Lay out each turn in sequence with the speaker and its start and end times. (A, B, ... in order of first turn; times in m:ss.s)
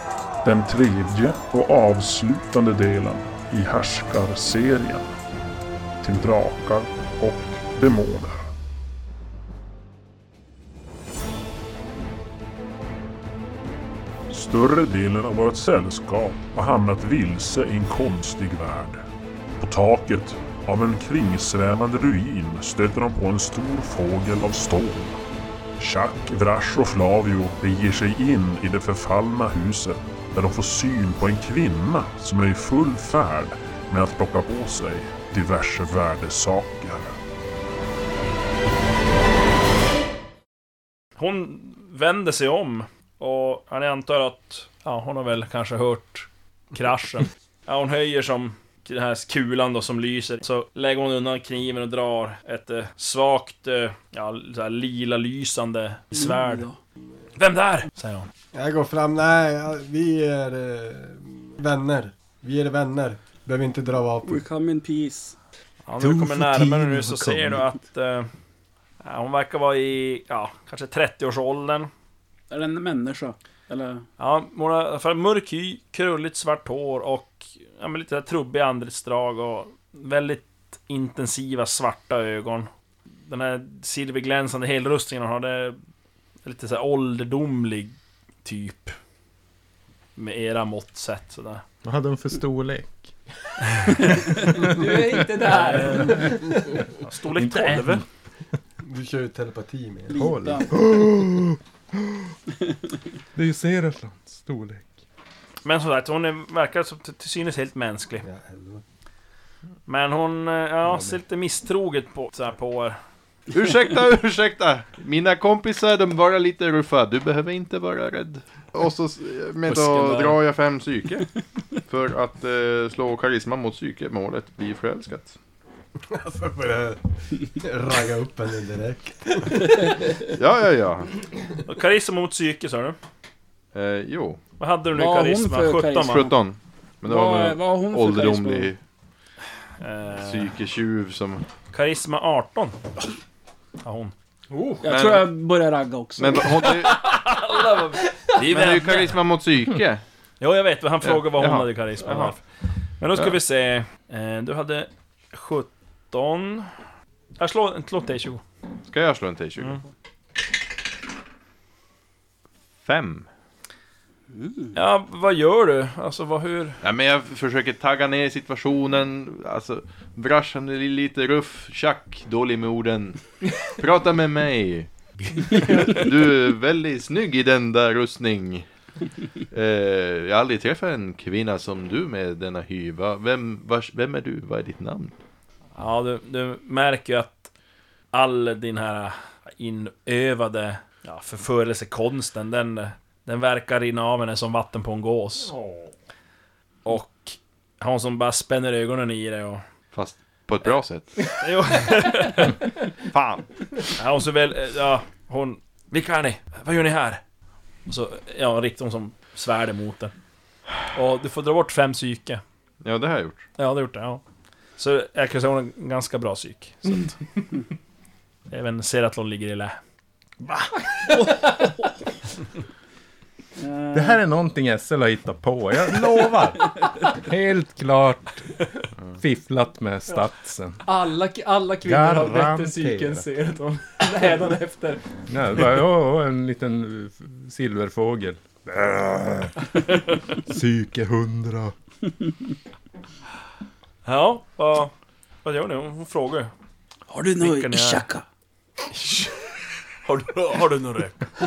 0:00.4-0:05.1 A
0:06.0-0:08.5 A
0:14.3-0:19.1 A
0:19.6-0:25.2 A
0:25.8-0:37.2 A
0:41.2-0:56.7 B
0:56.1-0:56.8 C
0:57.4-0:58.3 B
0:58.5-1:04.4 D
1:04.2-1:05.4 C
1:05.9-1:08.3 B
1:06.0-1:07.6 E
1:09.0-1:11.9 B
1:12.5-1:14.1 C
1:14.2-1:22.7 B
1:23.3-1:25.8 B
1:26.4-1:29.0 B
1:30.2-1:31.6 B
1:31.8-1:33.1 E
1:33.6-1:34.7 E
1:33.8-1:34.1 B
1:34.5-1:36.5 F
1:35.5-1:36.3 B
1:37.0-1:38.0 B
1:37.3-1:38.0 E
1:38.8-1:40.2 D
1:40.1-1:40.7 C
1:40.2-1:42.3 E
1:43.4-1:44.9 E
1:45.6-1:48.2 B
1:48.2-1:48.8 D
1:49.9-1:53.0 B
1:50.9-1:51.2 E
1:53.5-2:01.3 G
1:59.7-2:00.4 B
2:01.9-2:05.4 G
2:06.1-2:09.9 D
2:10.3-2:11.1 G
2:11.7-2:13.0 B
2:13.7-2:14.4 G
2:14.6-2:16.3 B
2:14.9-2:16.4 C
2:16.0-2:18.8 G
2:17.0-2:18.7 C
2:19.8-2:20.5 B
2:20.2-2:21.4 G
2:21.7-2:22.8 B
2:23.8-2:24.1 B
2:24.5-2:24.8 F
2:24.8-2:26.7 C
2:24.8-2:25.3 G
2:26.2-2:27.0 G
2:26.8-2:29.2 B
2:28.5-2:30.0 G
2:30.4-2:32.4 B
2:31.0-2:32.3 G
2:33.0-2:36.7 B
2:37.4-2:38.4 B
2:38.9-2:39.8 G
2:42.8-2:43.3 G
2:44.3-2:44.8 C
2:44.8-2:46.8 B
2:46.8-2:58.7 G
2:59.5-3:05.1 G
3:05.8-3:07.5 B
3:08.1-3:15.5 B
3:15.4-3:15.9 F
3:16.8-3:19.6 B
3:19.9-3:21.3 G
3:21.4-3:22.6 B
3:23.1-3:23.5 G
3:24.0-3:27.2 B
3:27.9-3:30.1 B
3:30.9-3:32.4 B
3:32.8-3:33.4 G
3:33.6-3:34.2 B
3:34.8-3:37.2 B
3:38.5-3:39.8 B
3:40.4-3:41.3 E
3:43.6-3:44.2 C
3:43.9-3:48.7 E
3:49.2-3:50.8 E
3:50.8-3:55.0 F
3:51.8-3:53.2 E
3:55.3-4:01.7 E
4:04.0-4:04.9 B
4:05.4-4:06.5 B
4:07.1-4:08.2 C
4:07.4-4:08.1 B
4:08.9-4:09.4 B
4:10.0-4:11.3 B